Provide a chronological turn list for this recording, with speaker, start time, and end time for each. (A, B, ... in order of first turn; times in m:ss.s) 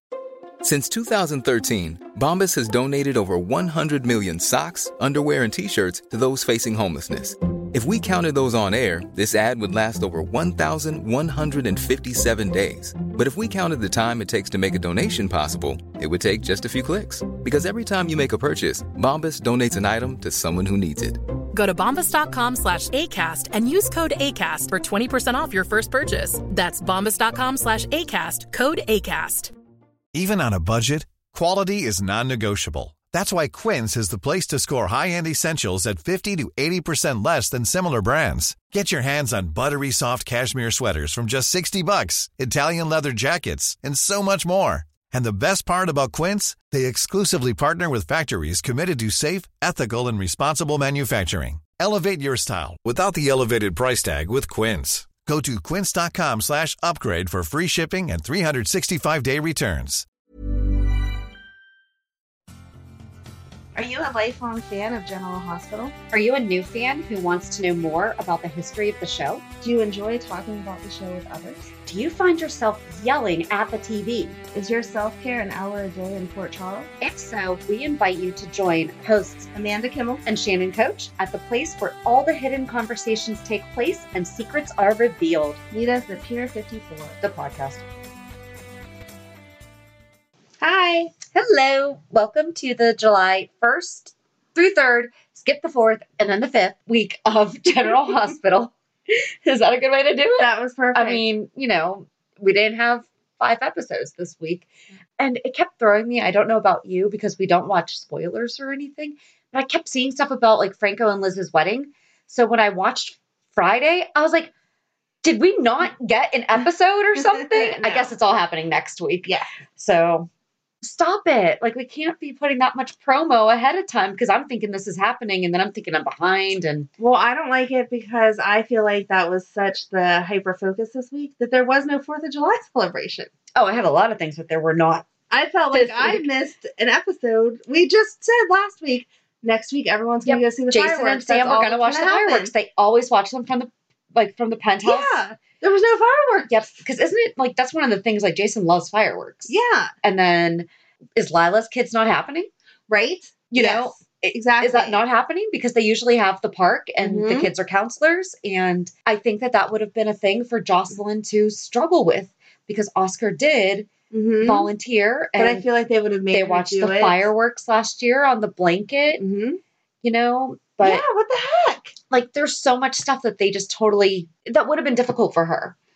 0:00.6-0:21.2 A
0:21.5-0:29.5 B
0:30.1-1:00.0 C
1:03.7-1:05.9 D
1:06.1-1:09.4 E
1:09.6-1:11.7 D
1:11.8-1:14.4 E
1:14.5-1:16.9 D
1:17.0-1:19.5 E
1:19.5-1:20.2 D
1:20.2-1:25.6 E
1:25.7-1:27.2 D
1:27.2-1:27.8 E
1:30.6-1:31.1 D
1:31.3-1:44.7 E
1:40.4-1:41.2 D
1:45.2-1:54.5 E
1:55.2-2:00.3 E
1:57.6-1:58.1 D
2:00.8-2:06.9 E
2:07.0-2:13.3 D
2:13.6-2:15.1 E
2:15.3-2:22.5 D
2:15.7-2:16.2 E
2:20.2-2:25.2 E
2:24.8-2:26.5 D
2:26.5-2:32.5 E
2:29.5-2:29.9 D
2:32.9-2:35.0 D
2:33.5-2:43.9 E
2:37.0-2:37.5 D
2:44.1-2:44.7 D
2:44.4-2:45.6 E
2:45.4-2:47.3 D
2:46.3-2:49.2 E
2:49.1-2:49.6 D
2:50.0-2:51.0 E
2:50.8-2:51.9 D
2:52.1-2:55.7 E